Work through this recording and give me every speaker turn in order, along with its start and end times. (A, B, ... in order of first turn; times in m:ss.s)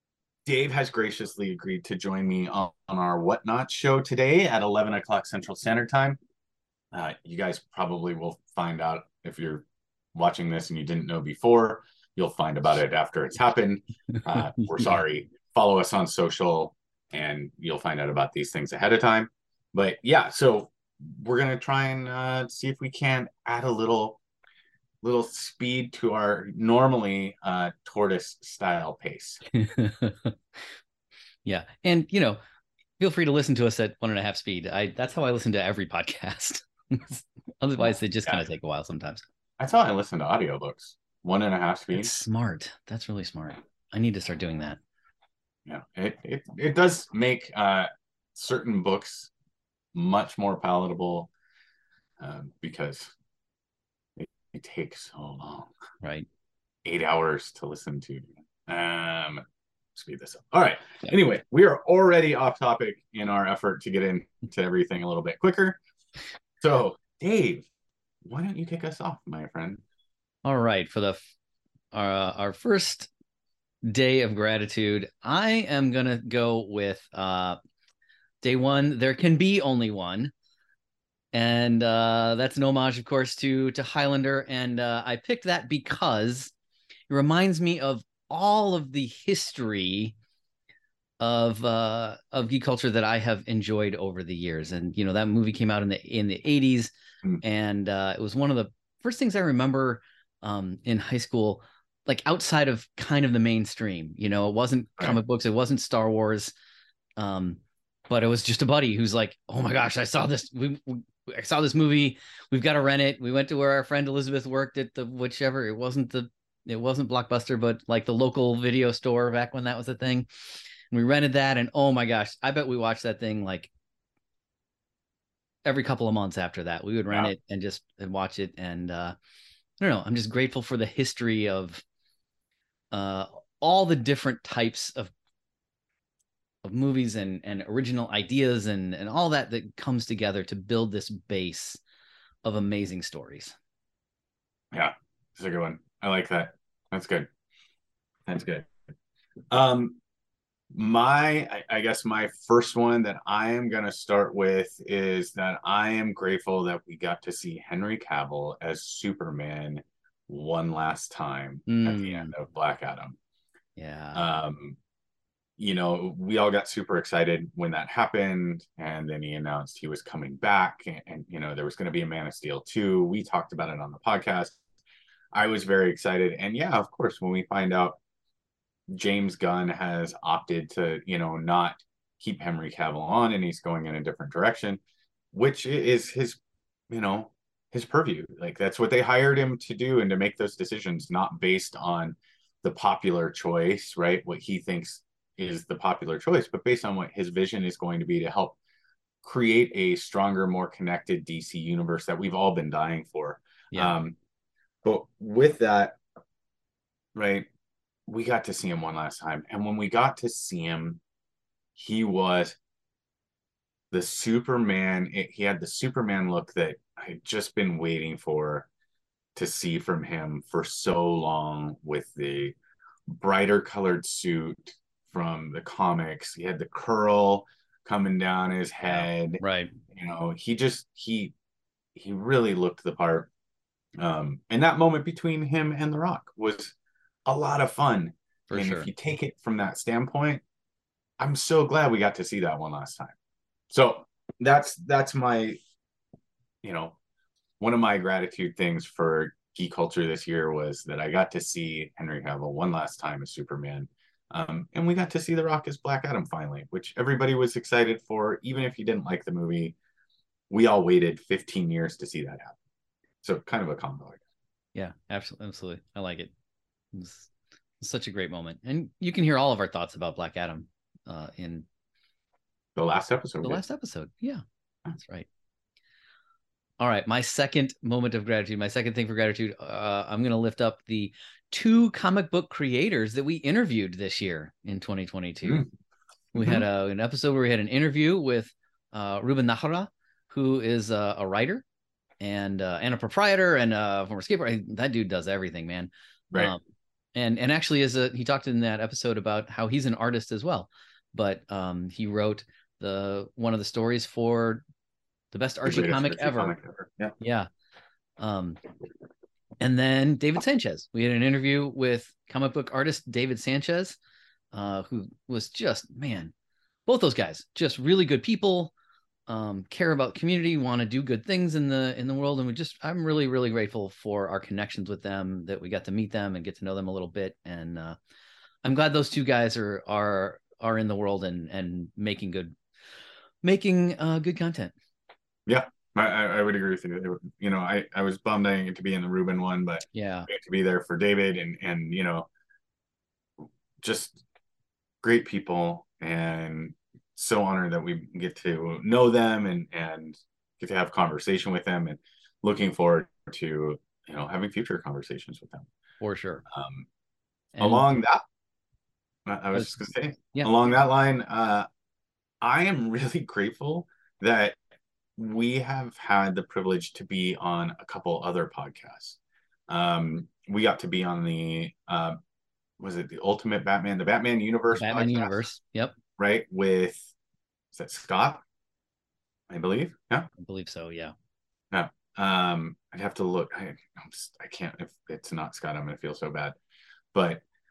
0:00.4-0:06.2 A
0:06.9-0:24.2 A
0:25.0-0:29.4 A
0:29.5-0:30.4 B
0:31.4-0:32.4 B
0:33.0-0:39.2 B
0:39.6-0:42.2 A
0:41.9-0:44.8 B
0:45.6-0:49.3 A
0:49.9-0:51.3 A
0:52.2-0:53.1 A
0:54.2-0:55.7 A
0:56.0-0:56.3 B
0:56.8-0:59.4 A
0:59.9-1:05.8 A
1:06.6-1:07.7 A
1:08.2-1:09.8 A
1:10.4-1:11.2 B
1:11.9-1:13.1 B
1:13.8-1:17.6 B
1:18.4-1:20.3 B
1:21.3-1:26.5 B
1:27.1-1:30.1 B
1:31.2-1:46.5 B
1:47.2-2:03.7 B
2:05.6-2:09.1 B
2:09.8-2:11.8 B
2:12.9-2:15.1 B
2:16.6-2:21.8 B
2:22.4-2:23.6 B
2:24.7-2:27.3 A
2:28.3-2:28.7 A
2:29.5-2:30.0 A
2:30.7-2:43.2 A
2:41.7-2:42.3 B
2:43.8-2:44.2 B
2:44.1-2:44.8 A
2:45.6-2:54.6 A
2:55.3-2:58.0 A
2:58.9-3:04.8 A
3:05.3-3:18.6 A
3:19.2-3:24.2 A
3:24.8-3:26.0 A
3:27.1-3:27.5 A
3:28.1-3:31.0 A
3:31.7-3:32.6 A
3:33.9-3:38.7 A
3:39.3-3:42.6 A
3:43.1-3:51.3 A
3:49.4-3:49.7 B
3:51.9-3:53.3 A
3:54.0-3:56.7 A
3:57.2-4:00.4 A
3:58.5-3:58.9 B
4:01.2-4:03.1 A
4:03.7-4:05.6 A
4:06.6-4:07.0 A
4:07.6-4:19.8 A
4:20.5-4:22.6 A
4:23.2-4:24.2 A
4:24.7-4:26.3 B
4:26.9-4:31.6 B
4:32.8-4:33.6 A
4:33.4-4:34.4 B
4:34.9-4:35.3 B
4:36.8-4:45.7 B
4:46.3-4:51.6 B
4:46.3-4:46.6 A
4:52.2-4:56.6 B
4:57.1-5:04.6 B
5:05.3-5:06.6 B
5:05.6-5:07.1 A
5:07.2-5:07.5 B
5:08.2-5:08.6 B
5:09.6-5:14.0 B
5:14.5-5:16.3 B
5:16.9-5:18.7 B
5:19.3-5:28.0 B
5:28.6-5:32.6 B
5:33.4-5:34.7 B
5:35.5-5:42.3 A
5:39.9-5:40.3 B
5:43.8-5:44.2 A
5:45.0-5:55.7 A
5:56.0-5:56.4 B
5:56.4-5:56.9 A
5:57.5-5:57.9 B
5:57.6-5:58.2 A
5:59.2-6:01.7 A
5:59.5-6:00.5 B
6:02.4-6:04.6 A
6:05.2-6:09.2 A
6:09.7-6:12.2 A
6:12.8-6:15.4 A
6:14.7-6:15.9 B
6:16.2-6:17.1 A
6:17.7-6:18.4 A
6:19.5-6:20.3 A
6:20.4-6:21.1 B
6:21.7-6:26.6 A
6:27.1-6:27.4 A